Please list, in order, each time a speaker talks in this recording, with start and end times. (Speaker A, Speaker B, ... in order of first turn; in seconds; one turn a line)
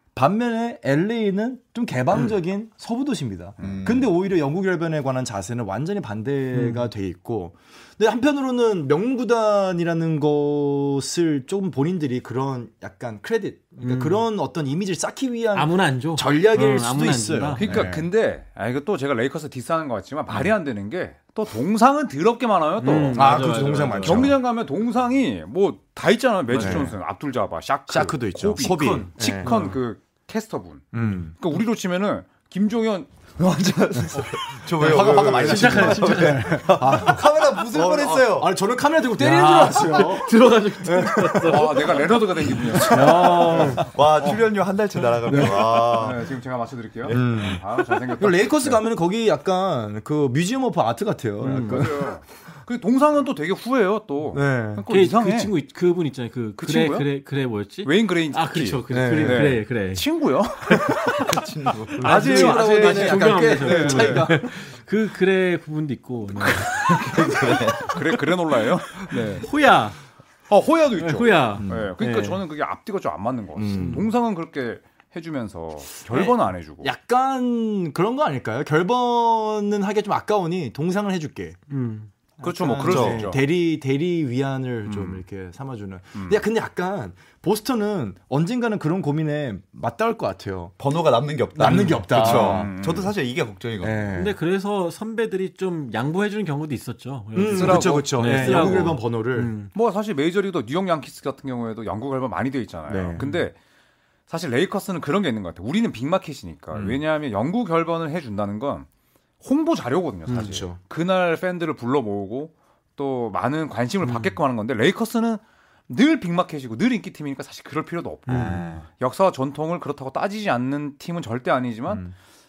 Speaker A: 0.1-18.1
Speaker B: 3.6-4.1
Speaker C: 6.5-6.9
Speaker C: 13.8-14.3
Speaker C: 15.5-17.6
Speaker D: 17.5-33.1
Speaker B: 17.6-17.9
Speaker C: 22.8-24.3
Speaker A: 23.1-24.4
Speaker C: 26.5-26.9
Speaker A: 26.5-26.9
Speaker A: 27.9-29.6
Speaker C: 28.5-29.8
Speaker A: 30.9-31.4
Speaker B: 33.4-38.5
Speaker A: 34.1-44.3
Speaker C: 34.9-36.6
Speaker C: 39.2-42.0
Speaker D: 41.4-43.6
Speaker C: 42.8-43.9
Speaker B: 43.6-46.3
Speaker A: 45.2-46.0
Speaker D: 45.3-48.8
Speaker B: 47.0-47.6
Speaker A: 47.1-52.1
Speaker D: 51.4-55.5
Speaker C: 51.4-51.9
Speaker A: 54.3-54.8
Speaker C: 54.9-60.1
Speaker D: 56.6-57.1
Speaker D: 57.8-64.3
Speaker A: 58.9-59.5
Speaker C: 60.6-61.3
Speaker B: 61.2-62.0
Speaker A: 61.9-64.5
Speaker C: 62.0-66.7
Speaker D: 66.4-69.5
Speaker B: 66.8-68.0
Speaker C: 69.4-70.0
Speaker D: 70.5-76.9
Speaker C: 71.0-72.4
Speaker A: 71.5-71.9
Speaker A: 73.5-74.1
Speaker A: 76.1-81.6
Speaker C: 81.7-82.1
Speaker A: 82.4-90.7
Speaker D: 82.4-83.4
Speaker B: 82.8-83.3
Speaker D: 84.8-85.2
Speaker D: 86.1-86.4
Speaker B: 90.8-94.2
Speaker A: 91.5-92.7
Speaker C: 91.6-92.0
Speaker D: 92.1-93.1
Speaker A: 93.8-94.3
Speaker C: 94.1-99.7
Speaker A: 97.3-99.5
Speaker D: 97.5-99.0
Speaker D: 99.7-103.5
Speaker A: 102.9-103.2
Speaker C: 103.2-103.4
Speaker D: 104.3-108.9
Speaker D: 109.4-122.1
Speaker C: 110.3-110.6
Speaker A: 110.3-110.8
Speaker C: 114.0-114.4
Speaker C: 118.3-118.7
Speaker B: 118.3-118.8